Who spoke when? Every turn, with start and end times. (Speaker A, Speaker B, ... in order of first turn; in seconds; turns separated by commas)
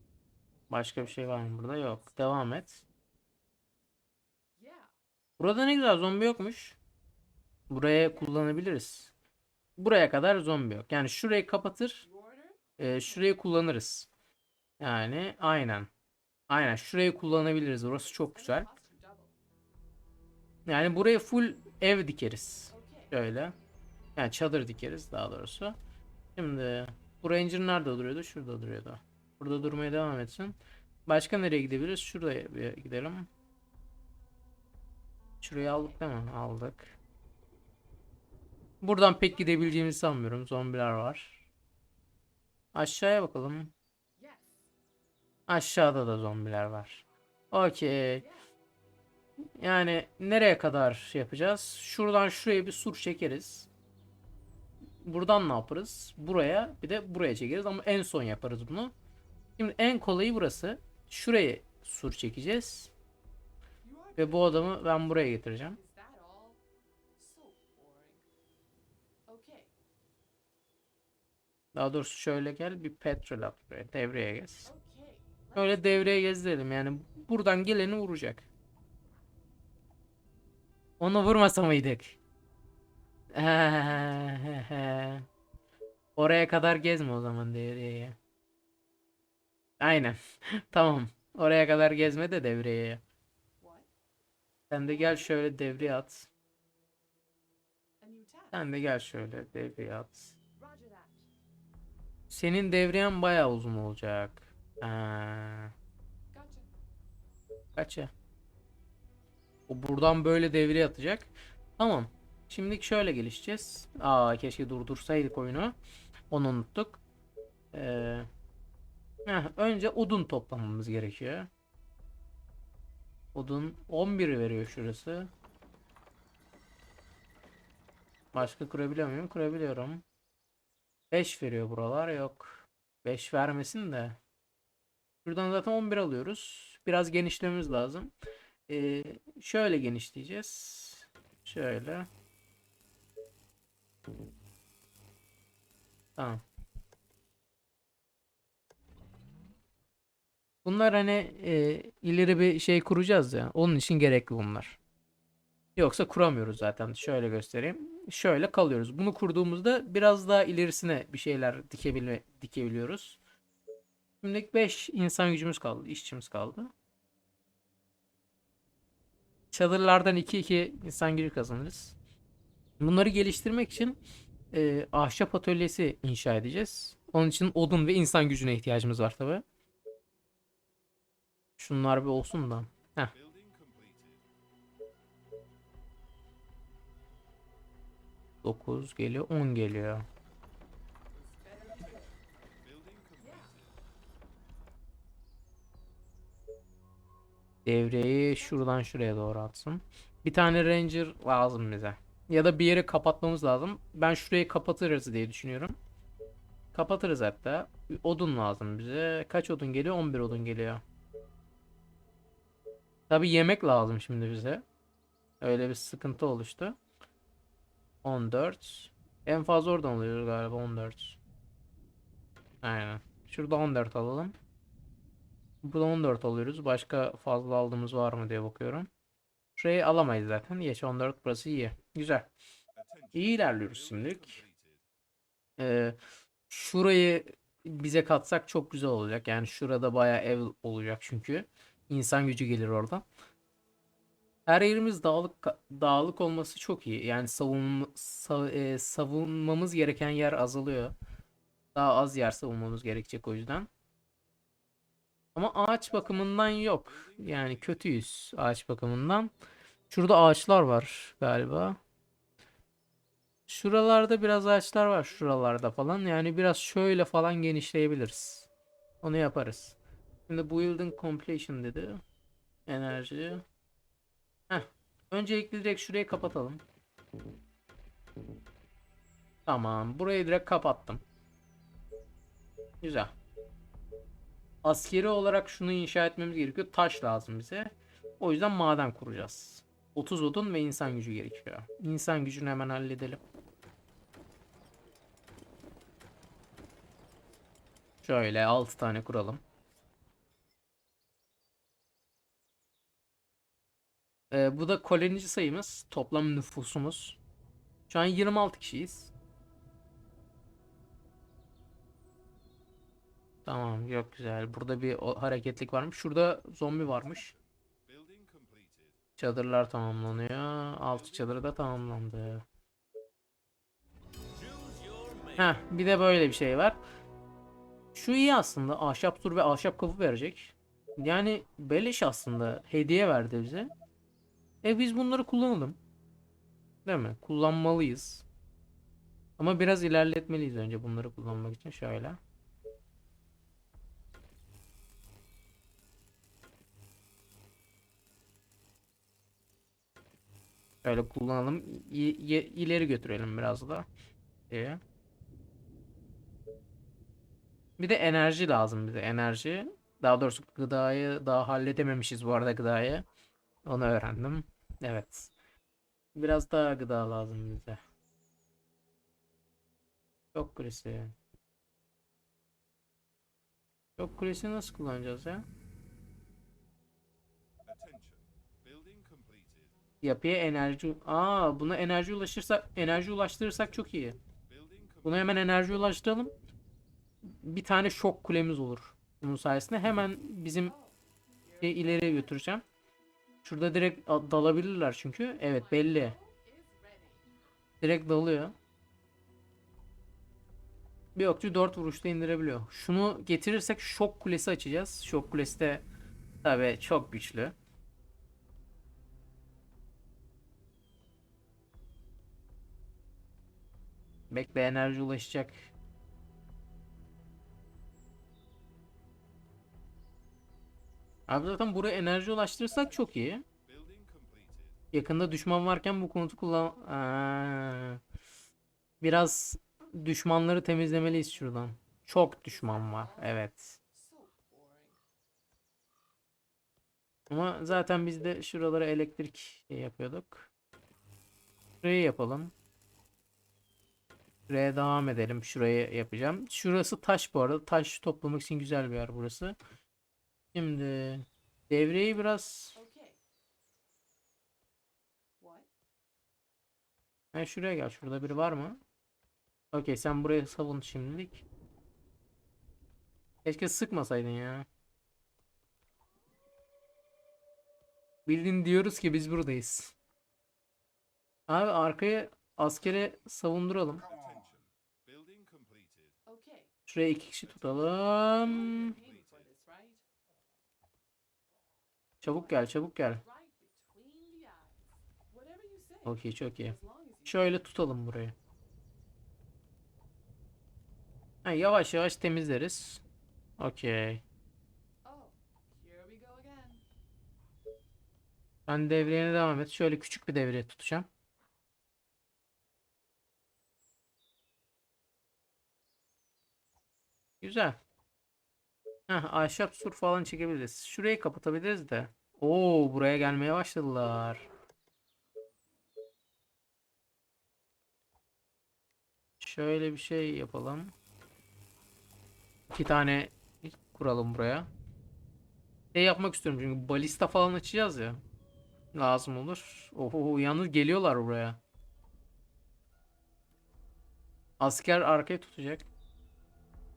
Speaker A: 0.7-2.8, Speaker B: 1.9-2.4, Speaker B: 4.5-4.9, Speaker A: 5.4-6.8, Speaker A: 7.7-9.1, Speaker B: 8.0-8.5, Speaker A: 9.8-12.0, Speaker B: 12.0-13.3, Speaker A: 12.8-14.1, Speaker A: 14.8-15.9, Speaker A: 16.5-18.7, Speaker B: 17.9-19.4, Speaker A: 20.7-23.6, Speaker B: 22.7-23.1, Speaker A: 24.1-25.8, Speaker A: 26.4-33.3, Speaker A: 35.4-37.0, Speaker B: 35.5-36.1, Speaker A: 38.8-41.4, Speaker B: 39.2-40.1, Speaker A: 42.7-43.7, Speaker B: 44.2-44.7, Speaker A: 45.5-48.2, Speaker B: 48.2-48.5, Speaker A: 49.6-53.7, Speaker A: 55.0-58.9, Speaker A: 59.6-62.9, Speaker B: 63.8-64.8, Speaker A: 64.2-65.8, Speaker B: 65.7-66.6, Speaker B: 67.2-68.3, Speaker B: 69.3-69.7, Speaker A: 71.7-74.7, Speaker B: 74.6-76.2, Speaker A: 75.5-78.5, Speaker A: 81.0-82.2, Speaker A: 83.3-85.2, Speaker A: 86.2-88.2, Speaker A: 89.8-93.0, Speaker B: 93.6-93.9, Speaker A: 94.7-96.3, Speaker B: 94.8-95.4, Speaker B: 98.0-98.7, Speaker A: 98.5-100.3, Speaker B: 100.5-101.3, Speaker A: 102.3-105.7, Speaker B: 106.3-106.7, Speaker A: 107.8-108.1, Speaker A: 109.7-115.7, Speaker A: 116.3-117.0, Speaker A: 117.7-118.3, Speaker A: 119.2-121.5, Speaker A: 123.3-125.3, Speaker A: 128.3-130.0, Speaker A: 131.1-134.2, Speaker A: 135.2-138.1, Speaker A: 138.7-142.1, Speaker A: 146.2-146.4, Speaker A: 150.6-154.8, Speaker A: 155.8-163.2, Speaker A: 164.2-166.7, Speaker A: 169.5-172.0, Speaker A: 172.8-174.0, Speaker A: 174.5-179.4, Speaker A: 181.6-183.1, Speaker A: 188.4-190.1, Speaker B: 191.1-192.2, Speaker B: 193.1-193.6, Speaker A: 197.6-205.8, Speaker B: 198.3-198.9, Speaker A: 206.7-210.8, Speaker A: 213.1-214.6, Speaker A: 215.4-216.8, Speaker A: 218.0-221.2, Speaker A: 222.6-224.3, Speaker A: 225.6-228.9, Speaker A: 229.6-232.3, Speaker A: 233.1-234.4, Speaker A: 235.6-236.0, Speaker A: 236.5-243.0, Speaker A: 244.5-250.9, Speaker A: 251.7-253.7, Speaker A: 255.3-259.3, Speaker A: 259.9-261.8, Speaker A: 263.5-268.5, Speaker A: 269.0-269.8, Speaker A: 270.3-272.0, Speaker A: 272.7-273.4, Speaker A: 274.5-276.6, Speaker A: 279.4-281.0, Speaker A: 282.8-283.1, Speaker A: 284.6-293.2, Speaker A: 298.0-299.4, Speaker A: 304.3-307.2, Speaker A: 307.9-309.1, Speaker A: 313.4-317.3, Speaker A: 319.2-322.4, Speaker A: 325.3-326.8, Speaker A: 327.9-333.7, Speaker A: 334.6-335.8, Speaker A: 336.9-338.2, Speaker A: 339.4-342.2, Speaker A: 350.8-353.9, Speaker A: 354.5-354.8, Speaker A: 357.8-363.1, Speaker A: 363.6-365.3, Speaker A: 366.1-367.8, Speaker A: 370.3-371.1, Speaker A: 374.0-375.4, Speaker A: 380.0-384.2, Speaker A: 385.0-386.3, Speaker A: 387.2-390.7, Speaker B: 390.6-392.6, Speaker A: 391.6-392.6, Speaker A: 393.4-396.1, Speaker B: 395.4-397.3, Speaker A: 397.8-398.5, Speaker A: 401.1-405.9, Speaker A: 406.4-407.6, Speaker A: 414.3-415.6, Speaker A: 421.3-423.4, Speaker A: 424.9-428.0, Speaker A: 429.0-433.8, Speaker B: 430.8-431.8, Speaker B: 432.4-435.0, Speaker A: 437.3-440.5, Speaker A: 441.8-442.5, Speaker A: 444.5-449.6, Speaker A: 450.5-452.8, Speaker B: 452.7-453.2, Speaker B: 455.4-455.7, Speaker A: 457.3-458.8, Speaker A: 459.7-461.4, Speaker A: 463.4-464.7, Speaker A: 468.2-469.9, Speaker A: 471.5-474.1, Speaker B: 476.2-476.7, Speaker A: 476.9-479.0, Speaker B: 478.1-480.0, Speaker A: 482.2-483.2, Speaker B: 482.2-487.7, Speaker A: 486.0-486.7, Speaker A: 487.2-488.3, Speaker A: 491.4-493.0, Speaker A: 493.6-494.2, Speaker B: 495.0-496.8, Speaker A: 498.7-501.1, Speaker A: 507.4-507.8, Speaker A: 509.1-514.5, Speaker A: 519.4-520.9, Speaker A: 522.7-524.7, Speaker A: 525.9-528.2, Speaker A: 528.9-531.6, Speaker A: 534.6-535.9